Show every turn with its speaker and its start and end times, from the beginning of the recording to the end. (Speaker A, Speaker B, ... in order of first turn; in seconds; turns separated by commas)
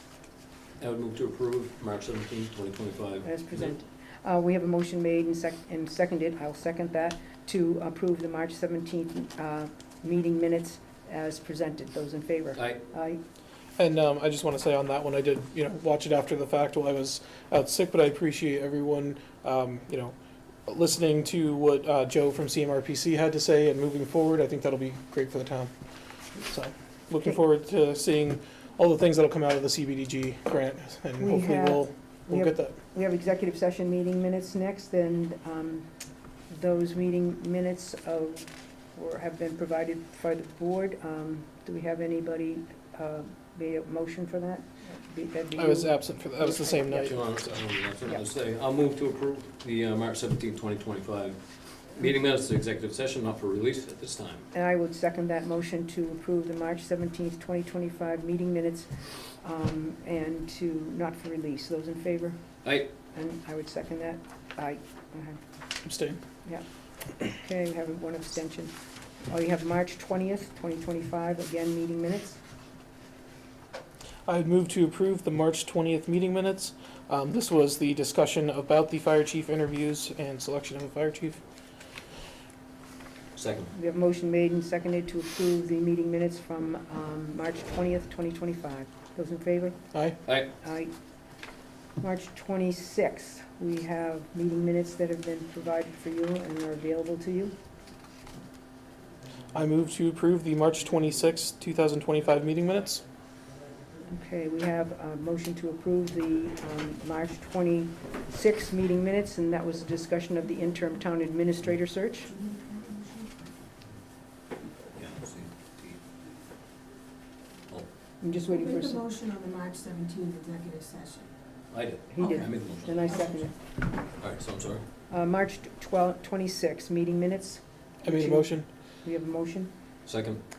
Speaker A: 0.8-3.7, Speaker B: 3.2-13.2, Speaker C: 13.8-20.1, Speaker C: 20.7-25.7, Speaker C: 26.4-32.7, Speaker B: 31.2-35.9, Speaker B: 36.5-47.2, Speaker C: 45.5-47.1, Speaker A: 47.0-51.4, Speaker A: 51.9-54.5, Speaker B: 54.5-62.4, Speaker B: 63.1-65.4, Speaker C: 65.8-66.2, Speaker B: 67.2-68.7, Speaker B: 69.3-72.4, Speaker C: 74.3-81.4, Speaker A: 83.3-83.7, Speaker B: 83.7-89.8, Speaker B: 90.6-90.9, Speaker B: 92.0-97.5, Speaker C: 99.5-103.0, Speaker B: 104.1-112.3, Speaker D: 112.3-113.3, Speaker A: 114.9-116.0, Speaker B: 118.2-119.0, Speaker D: 118.5-121.3, Speaker A: 121.7-123.1, Speaker B: 122.1-123.5, Speaker D: 122.2-122.5, Speaker D: 123.1-123.5, Speaker A: 124.2-124.8, Speaker B: 125.1-128.5, Speaker C: 128.0-128.7, Speaker B: 129.0-129.7, Speaker A: 130.1-130.4